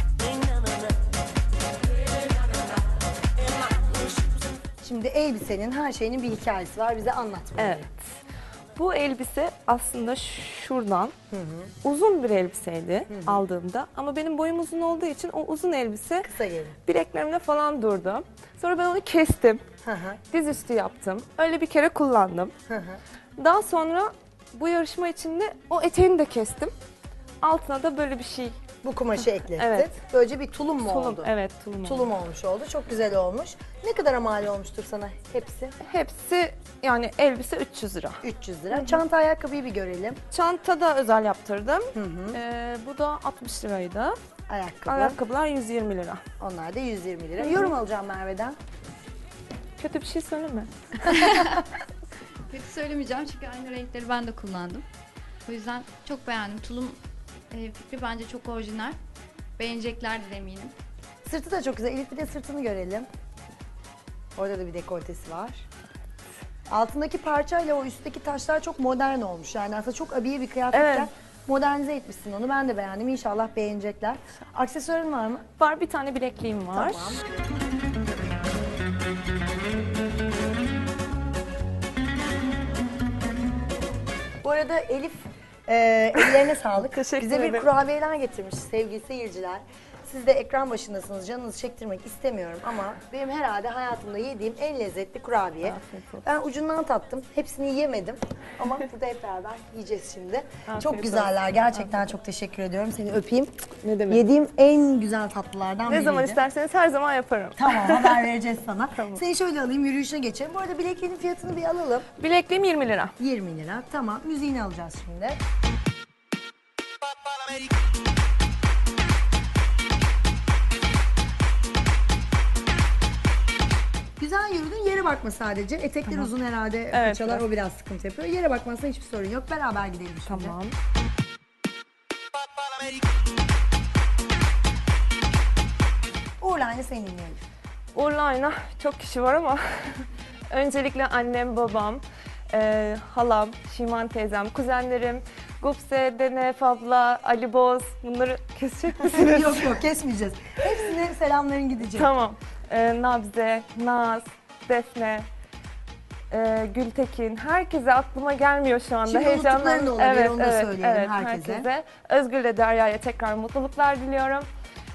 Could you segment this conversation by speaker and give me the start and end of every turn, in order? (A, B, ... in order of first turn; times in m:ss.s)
0:04.8-0:07.9 A
0:07.6-0:08.0 B
0:08.8-0:11.1 B
0:11.3-0:11.7 A
0:11.8-0:16.3 B
0:13.1-0:13.4 A
0:16.2-0:16.8 A
0:16.8-0:19.6 B
0:19.8-0:20.2 A
0:20.3-0:22.5 B
0:22.7-0:23.0 A
0:23.4-0:26.7 B
0:27.4-0:28.6 B
0:28.8-0:35.8 A
0:29.4-0:30.0 B
0:30.8-0:32.1 B
0:35.8-0:38.2 B
0:38.2-0:40.2 A
0:38.7-0:39.0 B
0:40.3-0:44.2 B
0:41.9-0:42.4 A
0:44.5-0:45.2 A
0:44.9-0:46.2 B
0:46.4-0:48.6 A
0:47.4-0:47.7 B
0:49.8-0:51.6 B
0:51.2-0:51.6 C
0:52.5-0:54.8 C
0:55.5-0:57.0 C
0:57.5-0:59.0 C
0:59.6-1:00.7 C
1:01.2-1:03.1 A
1:04.4-1:05.6 A
1:06.7-1:15.5 A
1:10.7-1:11.1 B
1:15.6-1:17.2 B
1:16.7-1:17.2 A
1:24.4-1:46.4 A
1:26.1-1:27.7 B
1:35.6-1:36.2 B
1:40.7-1:42.0 B
1:43.8-1:44.2 B
1:45.9-1:48.2 B
1:47.6-1:52.1 A
1:52.2-1:53.1 B
1:53.2-1:55.4 A
2:04.2-2:10.6 A
2:06.9-2:07.4 B
2:10.2-2:10.7 B
2:16.4-2:17.4 A
2:17.9-2:29.8 B
2:29.0-2:32.1 A
2:31.8-2:35.3 B
2:36.3-2:44.5 B
2:39.1-2:41.7 A